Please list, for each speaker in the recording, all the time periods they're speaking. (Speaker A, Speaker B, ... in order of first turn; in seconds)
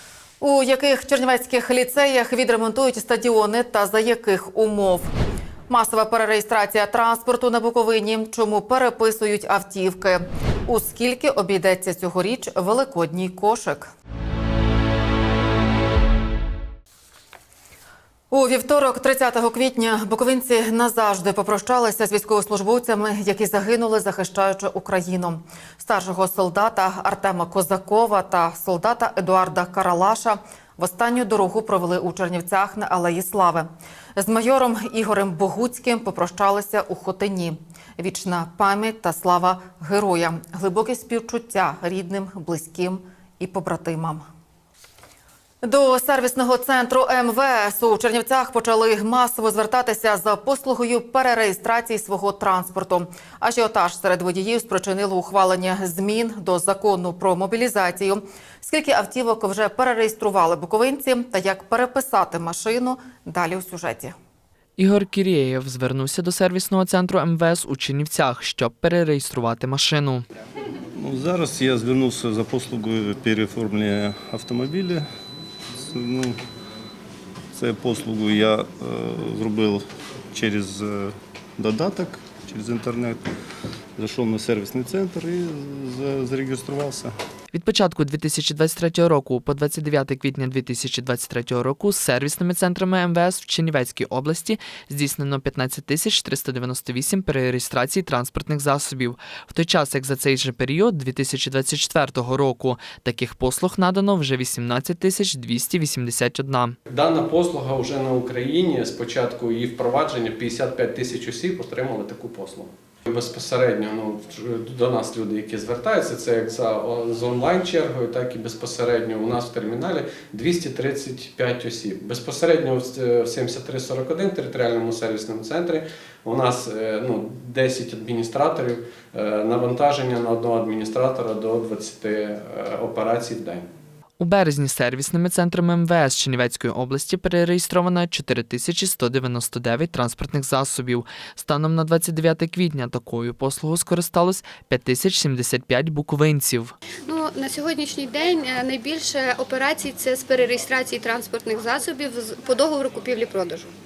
Speaker A: 0.4-5.1, 5.7-13.9, 18.3-44.3, 45.6-64.1
Speaker B: 64.8-70.3, 87.5-106.8, 134.2-146.8
Speaker C: 71.0-75.1, 75.8-76.4, 77.5-83.3, 84.0-87.1
Speaker D: 106.9-133.7
Speaker E: 147.1-153.6